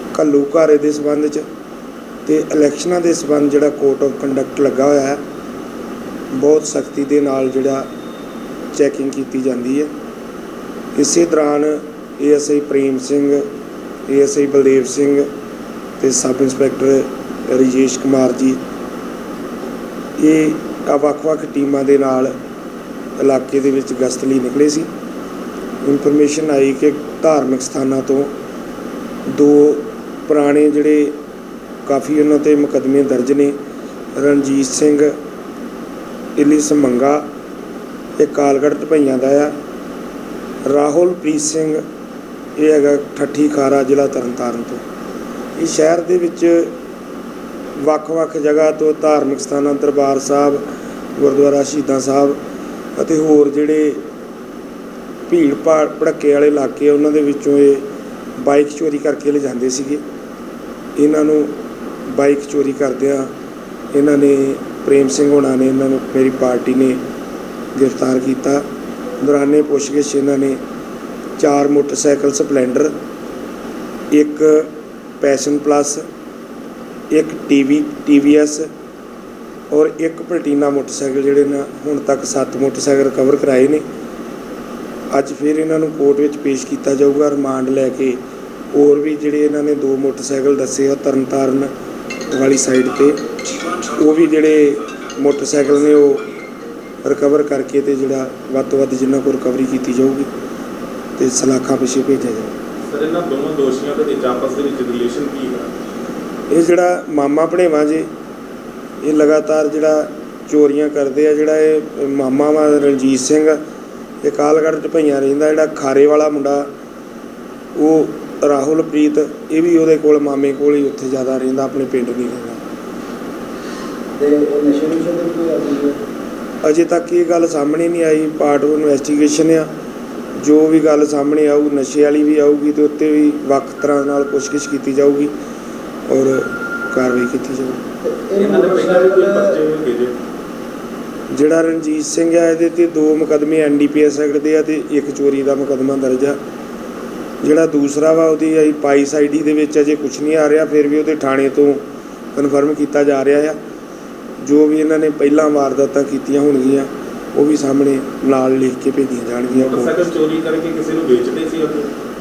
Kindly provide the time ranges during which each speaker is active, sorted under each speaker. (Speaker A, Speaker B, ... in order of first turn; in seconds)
Speaker A: 0.1-1.4, 2.3-5.2, 6.3-7.9, 8.7-9.9, 10.9-13.4, 14.1-15.3, 16.0-18.6, 20.2-22.3, 23.2-24.9, 25.8-28.3, 29.3-31.2, 31.9-33.5, 34.2-35.1, 36.4-37.2, 38.2-39.5, 40.7-41.8, 42.6-44.8, 45.6-46.7, 47.8-50.6, 51.2-52.4, 53.0-54.0, 55.3-57.9, 58.4-60.0, 61.0-61.5, 62.1-63.3, 63.9-67.0, 67.8-68.6, 69.2-70.6, 71.4-72.9, 74.1-76.0, 77.1-78.7, 79.7-83.8, 85.1-88.2, 88.7-91.7, 92.3-93.2, 93.9-96.2, 97.0-100.3, 101.2-102.5, 106.5-108.1, 109.0-113.6, 114.2-116.7, 117.8-122.6, 126.6-129.7, 130.4-135.3, 136.1-137.8, 141.3-146.4, 147.4-151.8, 152.3-153.6, 154.4-160.0
Speaker B: 102.9-105.7, 138.4-140.2, 159.6-161.9
Speaker C: 124.2-126.0, 138.0-139.6